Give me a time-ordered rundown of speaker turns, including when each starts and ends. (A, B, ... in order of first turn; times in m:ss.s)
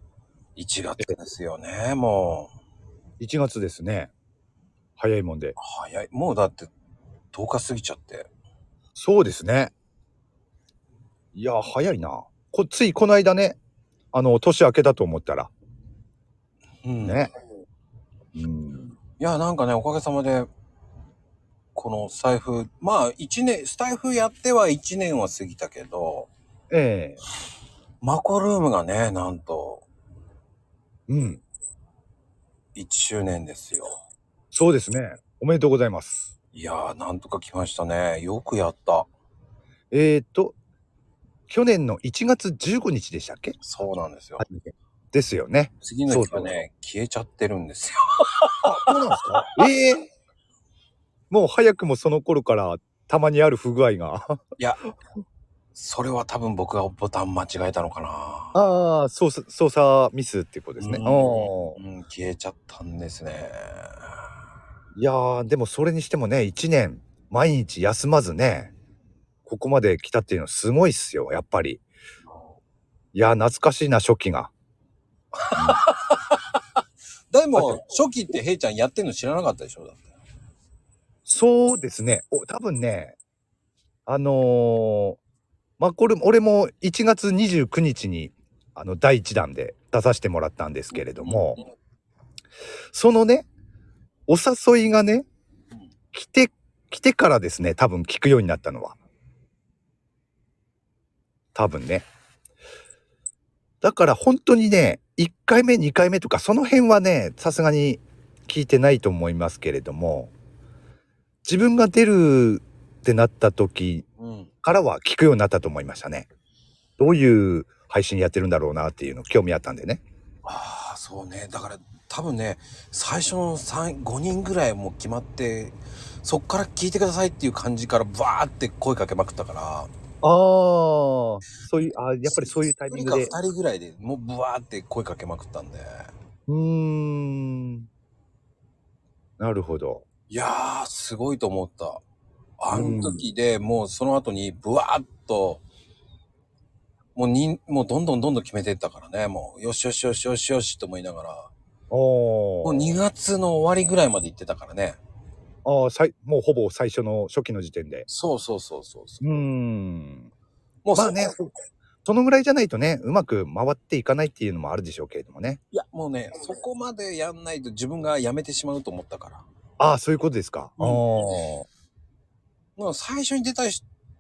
0:00.6-0:02.5 A
0:03.2-0:04.1 B
0:05.0-0:05.6 B
0:05.6-0:06.7 A
0:07.3-0:08.3 A
0:08.9-0:09.7 B
0:11.3-0:13.6 B
0:14.1-0:15.5 B
0:16.8-0:17.3 A
0:17.0-0:17.3 B
0:18.3-0:18.9 B
0:19.2-0:20.5 A
0:21.7-0:26.3 A
0:26.7-0:27.2 B
0:28.0-0:29.9 A
0:31.1-0:31.4 B
0:32.7-0:34.0 A
0:34.5-0:36.3 B
0:36.5-0:39.1 A
0:39.9-0:40.6 B
0:41.5-0:43.6 B
0:43.6-0:44.4 A
0:44.4-0:46.6 B
0:45.8-0:48.9 A
0:48.6-0:50.1 B
0:51.3-0:54.4 B
0:54.6-0:54.8 A
0:55.7-0:58.6 A
0:58.5-1:01.8 B
1:00.8-1:04.0 A
1:05.0-1:08.7 B
1:09.4-1:11.8 B
1:13.1-1:14.5 B
1:15.4-1:16.4 A
1:15.5-1:15.8 B
1:17.3-1:20.1 A
1:17.5-1:17.8 B
1:21.2-1:23.2 B
1:24.1-1:25.2 B
1:25.8-1:31.6 B
1:31.2-1:31.6 A
1:32.9-1:33.5 B
1:34.3-1:35.2 B
1:36.1-1:39.0 B
1:41.5-1:42.0 B
1:43.8-1:50.3 B
1:51.4-1:54.0 B
1:54.2-1:54.5 A
1:54.6-1:56.3 B
1:57.0-2:00.0 B
2:00.4-2:09.9 A
2:10.2-2:13.3 B
2:12.2-2:15.9 A
2:16.5-2:17.9 B
2:19.4-2:20.0 B
2:20.3-2:22.0 A
2:22.6-2:25.6 A
2:22.7-2:23.2 B
2:27.1-2:31.5 A
2:31.9-2:33.0 B
2:32.6-2:35.0 A
2:35.6-2:38.1 B
2:38.1-2:39.2 A
2:39.2-2:40.3 B
2:40.8-2:41.4 A
2:40.9-2:41.4 B
2:42.0-2:45.6 B
2:45.7-2:49.4 A
2:49.8-2:51.7 B
2:50.8-2:51.2 A
2:52.8-2:53.8 A